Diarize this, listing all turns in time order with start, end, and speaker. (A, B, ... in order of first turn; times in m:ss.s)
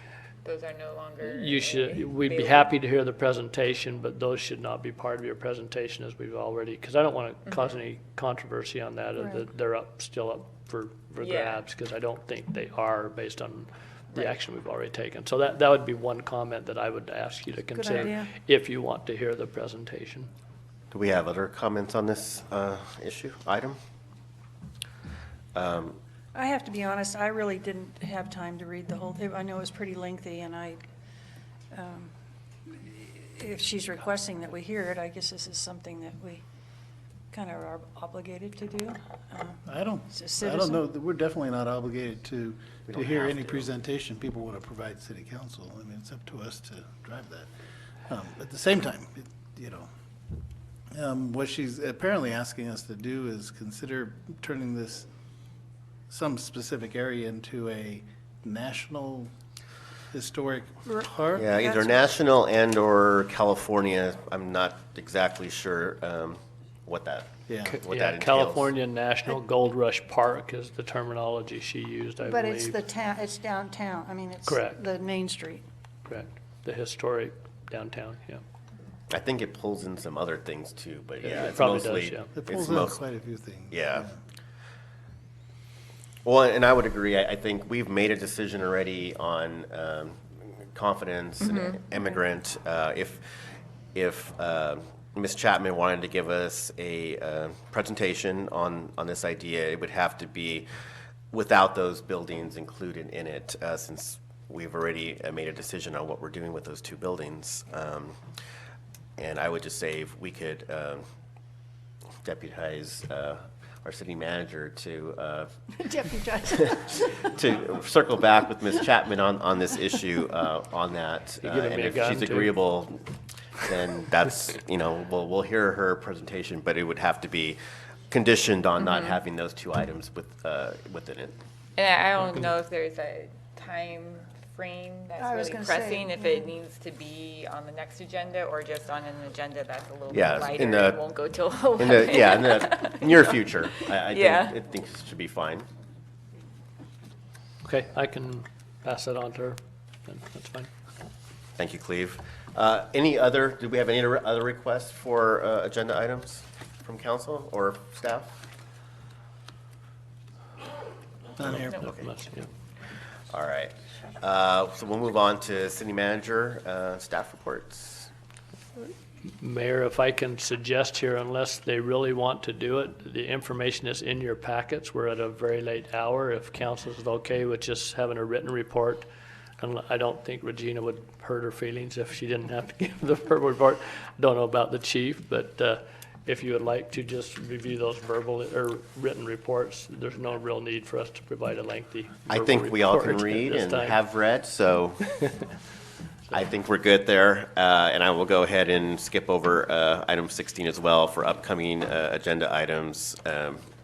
0:00.4-0:02.7 A
0:01.2-0:20.3 B
0:07.5-0:07.7 A
0:09.2-0:09.4 C
0:11.2-0:11.6 A
0:17.7-0:18.3 C
0:20.9-0:23.8 D
0:25.5-0:26.0 D
0:26.3-0:30.8 C
0:31.7-0:32.1 C
0:32.6-0:36.4 C
0:37.3-0:40.8 C
0:39.6-0:47.5 E
0:42.9-0:43.7 D
0:48.1-0:49.9 E
0:50.9-0:55.1 E
0:56.1-0:59.3 E
1:00.1-1:01.5 E
1:01.3-1:08.7 D
1:07.5-1:07.8 E
1:07.7-1:12.8 B
1:12.2-1:15.6 C
1:14.4-1:14.8 B
1:16.0-1:18.4 B
1:19.1-1:23.0 D
1:21.2-1:22.3 B
1:22.3-1:24.1 E
1:23.7-1:24.1 D
1:26.2-1:33.4 D
1:31.4-1:31.8 A
1:33.9-1:40.7 D
1:41.3-1:48.1 D
1:49.2-1:51.0 D
1:52.2-1:55.6 D
1:55.7-1:57.3 C
1:56.4-2:03.1 D
2:01.4-2:02.6 B
2:03.6-2:07.6 D
2:08.1-2:11.3 D
2:11.8-2:24.6 A
2:15.2-2:16.5 C
2:20.1-2:21.0 D
2:21.8-2:25.7 D
2:27.6-2:30.7 B
2:31.6-2:38.4 D
2:41.4-2:41.8 E
2:41.5-2:42.1 D
2:41.7-2:42.5 B
2:43.3-2:48.1 D
2:48.8-2:59.1 B
2:59.6-3:14.0 B
3:12.3-3:15.0 D
3:16.3-3:23.6 D